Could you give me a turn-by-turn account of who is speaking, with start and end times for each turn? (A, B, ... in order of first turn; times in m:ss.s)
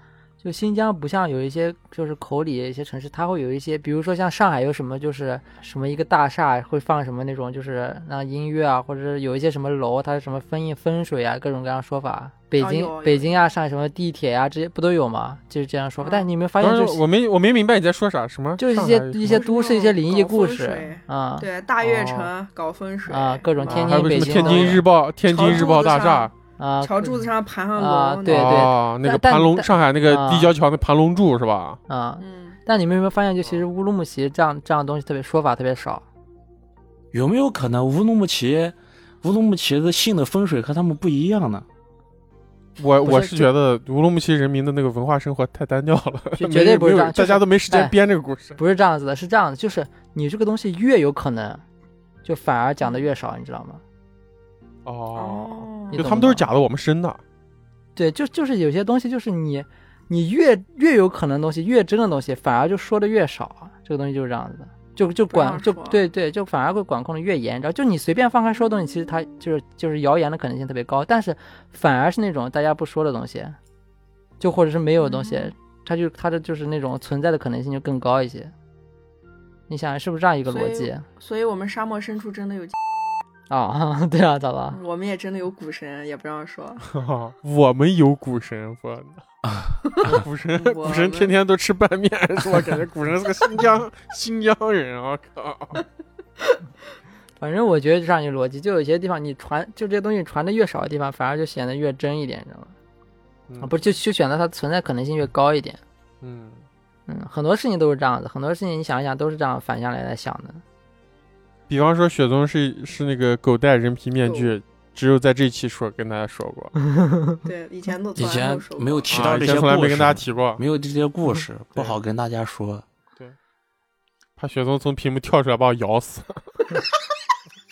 0:00.4-0:17.0 A
0:12.6-0:13.3 B
0:16.0-0:16.3 B
0:16.6-0:19.4 C
0:18.6-0:21.5 A
0:19.3-0:28.7 B
0:21.8-0:22.3 C
0:23.1-0:24.8 A
0:23.6-0:26.3 C
0:26.6-0:30.5 A
0:28.3-0:31.8 C
0:31.9-0:36.0 A
0:32.2-0:32.6 B
0:37.1-0:41.6 D
0:42.8-0:48.6 C
0:43.0-0:43.5 A
0:46.4-0:47.9 A
0:48.6-0:51.6 A
0:52.2-0:53.8 A
0:52.8-0:53.1 B
0:54.8-0:57.2 C
0:55.1-0:56.0 B
0:55.9-0:56.5 A
0:58.0-1:13.6 A
1:05.3-1:06.0 B
1:14.4-1:18.5 A
1:15.0-1:15.5 B
1:19.7-1:21.0 A
1:20.5-1:22.7 B
1:23.5-1:24.8 A
1:24.7-1:26.8 B
1:26.9-1:29.2 C
1:29.4-1:30.2 D
1:30.0-1:35.8 C
1:30.1-1:31.3 B
1:37.4-1:42.7 A
1:43.6-1:45.8 A
1:46.2-1:46.6 C
1:47.1-1:50.6 A
1:51.7-1:56.7 C
1:54.2-1:54.5 B
1:56.9-1:57.4 A
1:57.4-1:59.2 B
1:58.2-2:02.8 D
1:59.1-2:00.6 C
2:04.4-2:06.6 C